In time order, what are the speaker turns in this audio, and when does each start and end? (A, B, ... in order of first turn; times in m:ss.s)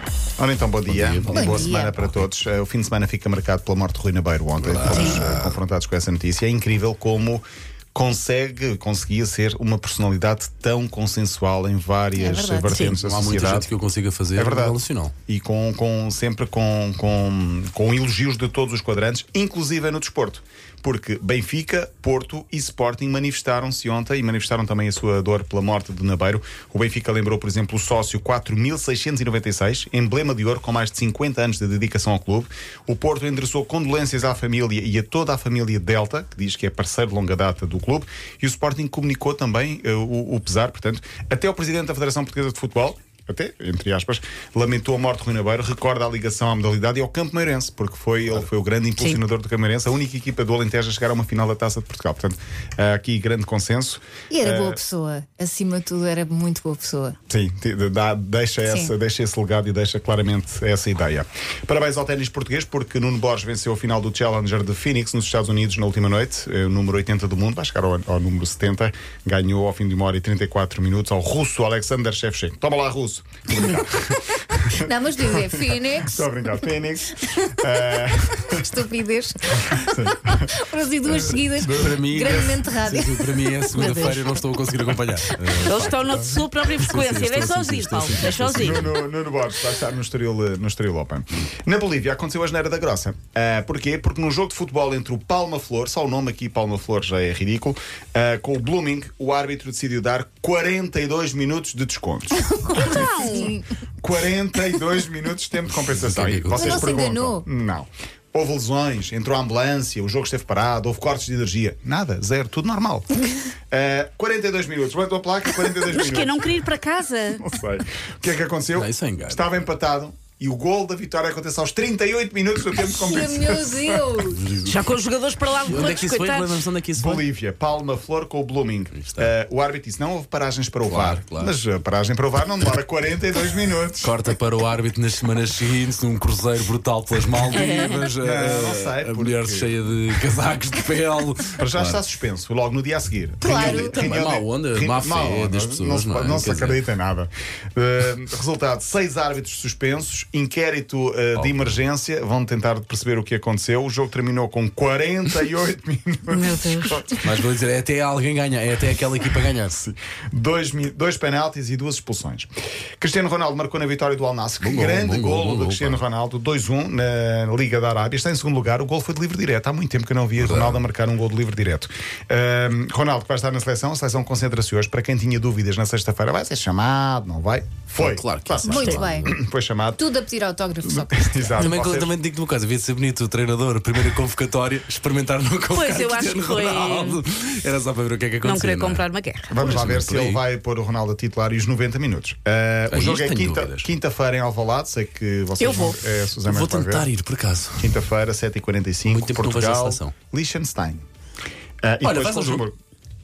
0:00.4-0:13.7 A
0:00.9-0:02.2 B
0:01.3-0:01.9 C
0:04.6-0:05.6 B
0:04.9-0:05.3 C
0:12.2-0:13.0 C
0:12.9-0:15.1 B
0:14.4-0:54.8 A
0:54.3-0:57.2 C
0:57.3-1:18.6 A
0:58.6-0:58.9 C
1:14.7-1:16.3 C
1:17.2-1:24.0 C
1:19.7-1:20.5 A
1:21.6-1:29.0 B
1:23.7-1:24.5 D
1:25.4-1:28.8 D
1:28.5-1:56.6 A
1:42.6-1:43.6 C
1:42.7-1:43.6 D
1:45.9-1:46.9 B
1:46.5-1:47.4 C
1:55.9-1:57.5 D
1:57.4-2:04.0 A
1:58.8-1:59.5 B
2:02.7-2:04.4 C
2:04.2-2:04.9 B
2:04.6-2:06.6 D
2:05.6-2:07.2 B
2:07.0-2:14.2 A
2:09.0-2:09.3 B
2:10.9-2:11.6 B
2:14.0-2:22.0 B
2:17.5-2:18.1 D
2:18.2-2:19.7 A
2:21.6-2:37.3 A
2:23.4-2:24.0 C
2:23.4-2:26.8 B
2:31.4-2:31.7 B
2:36.3-2:37.0 D
2:37.2-2:39.8 B
2:39.6-3:00.1 A
2:44.6-2:46.0 B
2:50.4-2:50.8 B
2:58.0-2:59.4 B
2:58.6-2:59.4 C
3:00.0-3:01.7 C
3:00.8-3:02.1 A
3:01.6-3:10.4 B
3:05.7-3:07.2 D
3:08.4-3:09.5 D
3:09.5-3:17.1 A
3:12.9-3:13.9 B
3:15.6-3:16.0 D
3:16.4-3:17.9 B
3:17.8-3:21.0 A
3:19.1-3:20.1 B
3:21.8-3:22.8 A
3:22.0-3:22.7 B